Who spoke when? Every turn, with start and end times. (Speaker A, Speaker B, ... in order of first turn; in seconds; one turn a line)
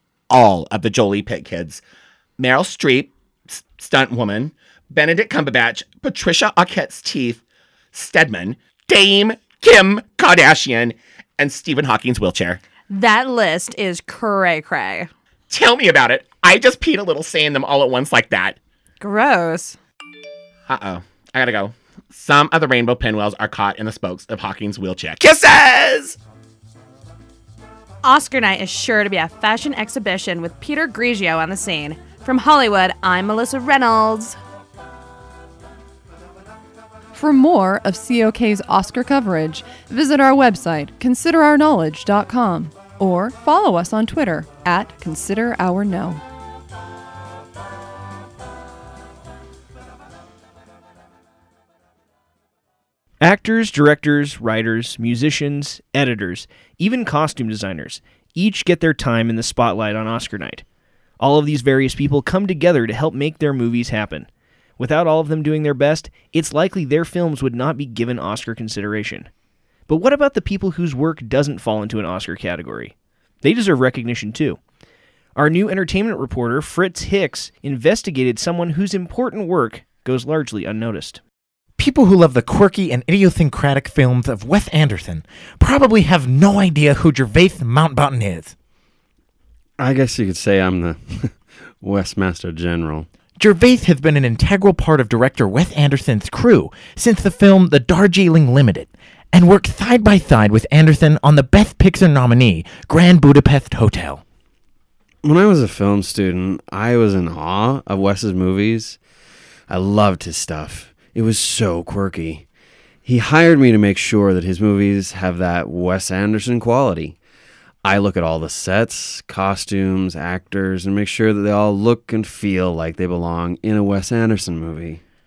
Speaker A: 0.3-1.8
Speaker A: 2.4-7.4
Speaker A: 7.9-12.6
Speaker B: 12.9-15.1
Speaker A: 15.5-18.6
Speaker B: 19.0-19.8
Speaker A: 20.7-26.2
Speaker B: 28.0-34.4
Speaker C: 37.1-46.2
Speaker D: 53.2-60.6
Speaker D: 61.2-69.3
Speaker D: 69.9-74.6
Speaker D: 75.3-81.2
Speaker E: 81.8-88.5
Speaker F: 89.8-93.1
Speaker E: 93.4-104.2
Speaker F: 105.2-109.0
Speaker F: 109.7-112.5
Speaker F: 113.0-117.2
Speaker F: 117.8-125.0